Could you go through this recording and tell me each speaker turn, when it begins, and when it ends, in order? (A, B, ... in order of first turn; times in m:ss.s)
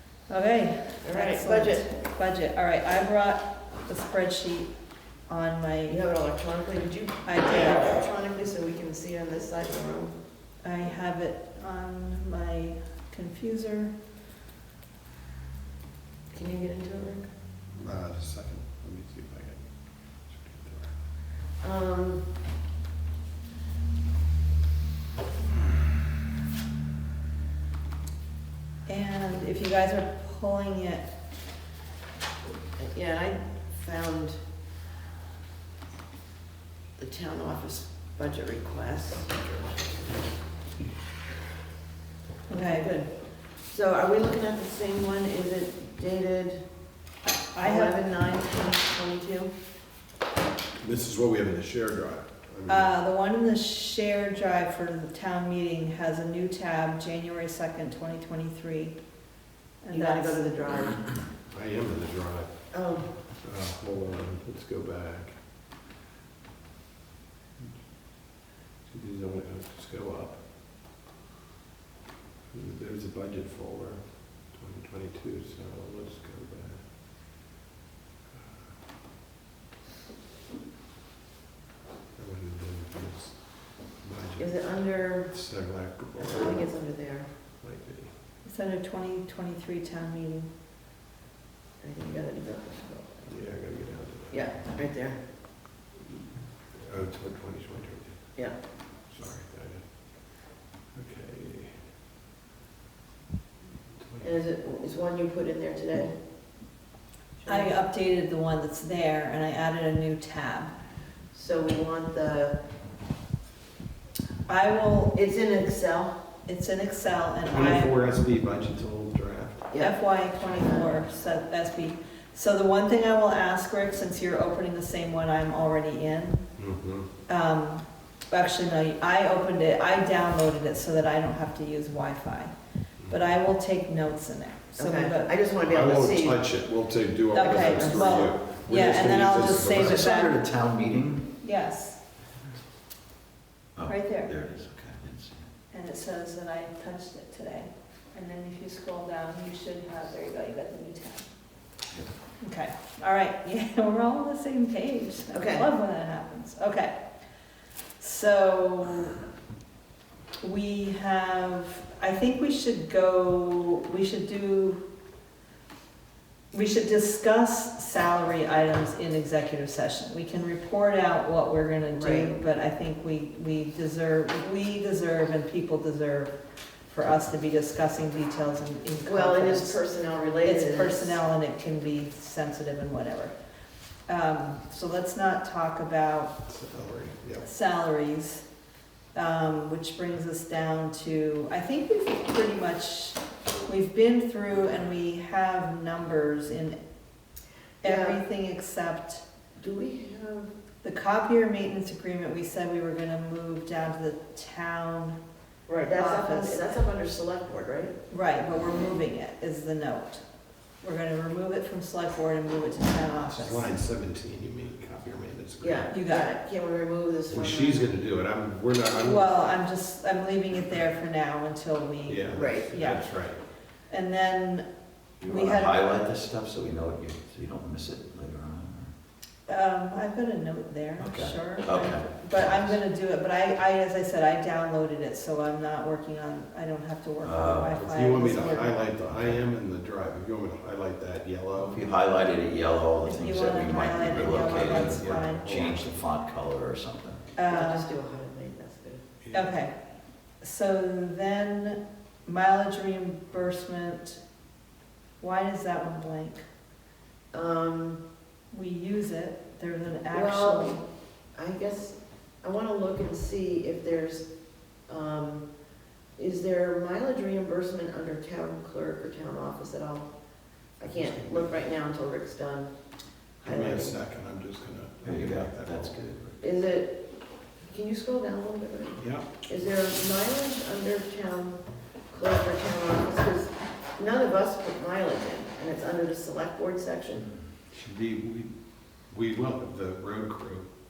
0:00.3-0:04.7 A
0:01.0-0:01.9 B
0:05.3-0:06.0 A
0:05.9-0:10.2 B
0:07.2-0:07.9 A
0:10.6-0:13.9 A
0:16.3-0:17.3 B
0:17.7-0:21.1 C
0:21.6-0:22.2 B
0:28.8-0:31.0 A
0:32.8-0:34.4 B
0:37.0-0:40.4 B
0:42.5-0:42.9 A
0:42.5-0:46.6 B
0:47.5-0:48.0 A
0:47.6-0:49.5 B
0:50.8-0:53.0 C
0:52.7-0:59.0 A
0:59.8-1:00.4 A
0:59.9-1:01.0 B
1:01.5-1:05.4 C
1:02.7-1:03.1 B
1:07.6-1:07.9 C
1:08.8-1:10.5 C
1:12.5-1:16.9 C
1:18.3-1:18.8 C
1:22.2-1:28.1 C
1:24.4-1:25.4 B
1:26.2-1:27.3 B
1:28.4-1:30.5 A
1:31.8-1:33.3 B
1:33.2-1:34.6 C
1:34.3-1:35.2 B
1:36.7-1:41.8 C
1:43.9-1:44.4 C
1:44.2-1:46.1 B
1:47.4-1:47.7 B
1:47.4-1:50.7 A
1:51.3-1:52.6 B
1:54.5-1:55.2 A
1:55.1-1:56.2 B
1:56.4-1:57.9 A
1:57.4-1:59.7 C
1:59.7-2:01.0 B
1:59.8-2:06.4 A
2:06.6-2:07.1 C
2:07.3-2:12.5 A
2:13.1-2:15.3 A
2:14.8-2:16.5 B
2:15.6-2:20.0 C
2:17.3-2:20.4 A
2:17.3-2:18.4 B
2:19.4-2:21.3 D
2:21.4-2:22.0 A
2:23.7-2:25.5 D
2:23.8-2:24.3 A
2:25.7-2:31.3 A
2:32.4-2:37.0 A
2:35.3-2:35.6 B
2:38.0-2:39.2 A
2:40.4-2:44.8 A
2:46.5-2:56.3 A
2:51.9-2:52.4 B
2:56.8-2:59.8 A
2:59.0-3:01.2 B
3:00.4-3:03.3 A
3:04.1-3:06.4 A
3:06.4-3:07.5 C
3:07.4-3:08.4 A
3:09.1-3:16.8 A
3:17.8-3:18.2 B
3:17.8-3:19.2 A
3:19.6-3:20.5 B
3:20.8-3:25.2 A
3:25.7-3:28.0 B
3:25.9-3:26.6 A
3:28.1-3:30.2 A
3:30.8-3:33.8 A
3:33.4-3:35.9 C
3:35.6-3:37.9 B
3:35.9-3:36.3 A
3:37.3-3:39.3 C
3:39.0-3:43.1 A
3:42.0-3:43.4 C
3:42.3-3:42.7 B
3:43.9-3:44.7 A
3:45.2-3:48.9 D
3:45.2-3:45.8 A
3:49.5-3:58.8 A
3:51.0-3:52.8 D
3:57.2-3:57.9 D
3:57.8-4:01.9 C
3:59.0-3:59.4 D
4:01.6-4:07.3 D
4:03.0-4:05.7 A
4:04.1-4:06.1 C
4:07.4-4:07.9 A
4:07.4-4:09.0 B
4:09.2-4:09.5 C
4:09.3-4:09.7 A
4:10.4-4:14.2 A
4:15.2-4:16.4 A
4:17.3-4:18.0 B
4:18.5-4:20.8 A
4:20.1-4:20.8 B
4:21.3-4:24.3 B
4:24.9-4:25.4 B
4:26.2-4:30.1 B
4:30.8-4:32.7 B
4:30.9-4:31.6 C
4:33.4-4:34.0 B
4:33.4-4:36.0 C
4:35.0-4:36.4 D
4:36.4-4:37.0 B
4:37.7-4:47.3 B
4:39.0-4:39.3 C
4:47.7-4:50.7 C